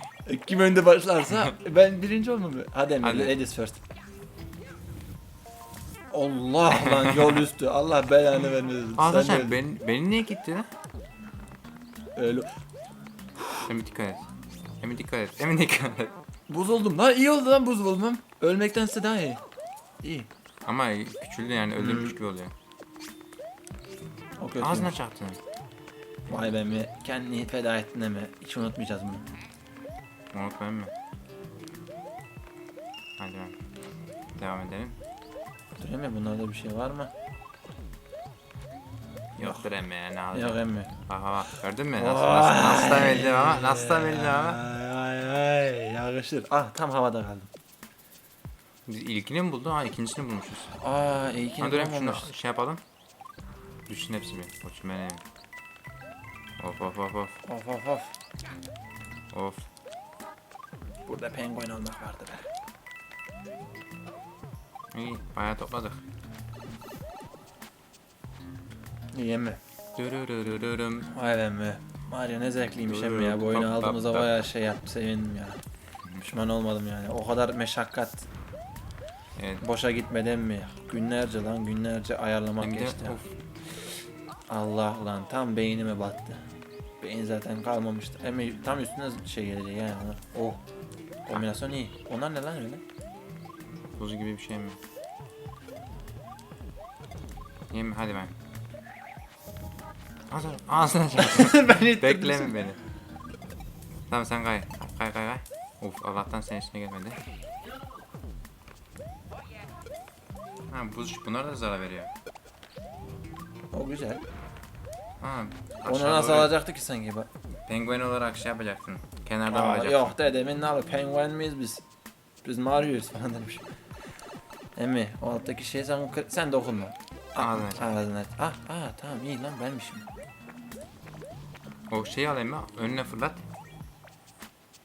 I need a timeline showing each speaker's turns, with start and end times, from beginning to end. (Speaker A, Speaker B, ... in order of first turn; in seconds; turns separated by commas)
Speaker A: 0.2-3.8, Speaker B: 3.0-3.3, Speaker A: 6.1-9.6, Speaker B: 6.8-7.3, Speaker B: 8.9-10.7, Speaker A: 12.1-12.5, Speaker B: 13.6-14.3, Speaker B: 14.8-16.2, Speaker A: 16.5-19.4, Speaker A: 20.0-20.3, Speaker B: 20.6-22.5, Speaker A: 21.8-22.1, Speaker A: 24.4-24.9, Speaker B: 24.6-25.4, Speaker A: 26.3-29.3, Speaker B: 30.3-30.9, Speaker B: 33.2-33.5, Speaker B: 34.4-35.0, Speaker A: 35.8-37.1, Speaker B: 39.4-44.6, Speaker A: 40.3-40.9, Speaker A: 42.0-47.5, Speaker B: 48.9-50.7, Speaker A: 50.7-52.3, Speaker B: 51.6-52.8, Speaker B: 53.9-55.2, Speaker B: 56.6-57.4, Speaker A: 57.5-58.1, Speaker B: 59.3-59.7, Speaker A: 61.0-62.5, Speaker B: 64.9-66.0, Speaker A: 69.1-69.6, Speaker B: 70.0-71.1, Speaker A: 71.1-75.6, Speaker B: 72.9-74.3, Speaker A: 76.2-78.3, Speaker B: 79.4-79.6, Speaker A: 79.6-83.2, Speaker B: 82.6-83.3, Speaker A: 84.5-86.5, Speaker A: 87.0-90.6, Speaker A: 91.2-92.8, Speaker B: 94.0-94.8, Speaker B: 97.7-98.3, Speaker B: 100.3-102.8, Speaker A: 101.2-102.6, Speaker B: 104.1-107.2, Speaker B: 110.7-112.1, Speaker A: 113.7-114.2, Speaker B: 115.2-116.6, Speaker A: 115.8-117.3, Speaker B: 117.7-120.1, Speaker A: 119.5-121.8, Speaker A: 122.4-123.7, Speaker A: 124.8-130.1, Speaker B: 127.3-128.0, Speaker B: 131.9-133.4